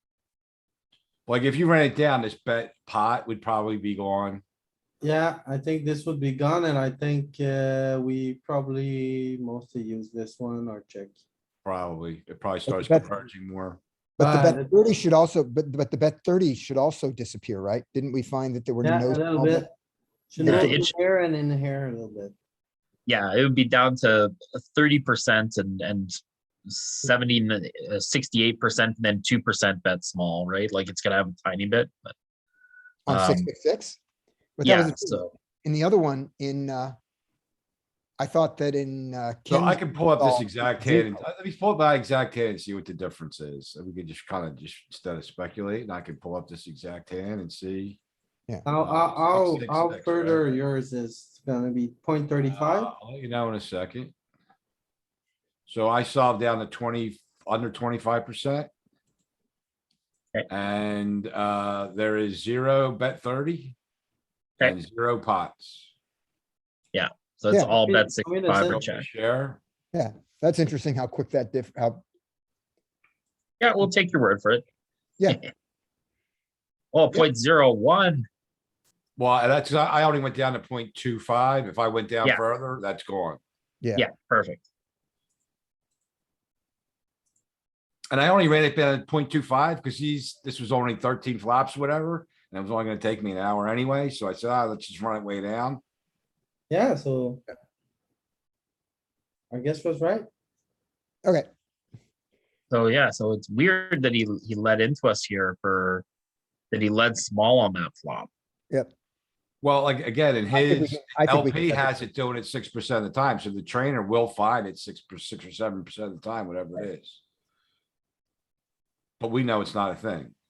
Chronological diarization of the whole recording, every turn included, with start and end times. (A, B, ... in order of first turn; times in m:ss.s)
0:01.3-0:04.4 A
0:05.0-0:11.2 B
0:11.6-0:13.8 A
0:12.7-0:13.1 C
0:14.2-0:19.7 C
0:14.2-0:14.7 B
0:18.8-0:19.7 B
0:20.3-0:22.3 B
0:20.4-0:20.9 C
0:20.4-0:20.9 D
0:23.1-0:32.2 D
0:33.1-0:34.0 C
0:33.1-0:33.5 D
0:34.6-0:37.0 C
0:34.6-0:35.3 D
0:38.2-0:41.2 C
0:39.5-0:48.0 A
0:48.7-0:52.9 B
0:48.7-0:50.6 A
0:52.4-0:54.1 A
0:55.7-0:58.7 A
1:00.5-1:03.8 A
1:04.6-1:05.9 A
1:06.9-1:09.1 D
1:07.7-1:08.8 B
1:08.6-1:09.6 A
1:09.9-1:12.0 C
1:13.6-1:14.6 D
1:16.9-1:18.3 D
1:19.2-1:23.4 A
1:23.8-1:24.1 C
1:24.0-1:24.6 D
1:28.1-1:35.8 A
1:36.7-1:37.4 B
1:39.5-1:40.3 B
1:42.7-1:46.0 D
1:46.7-1:48.3 D
1:49.6-1:57.2 A
1:50.5-1:52.0 C
1:59.2-2:00.3 A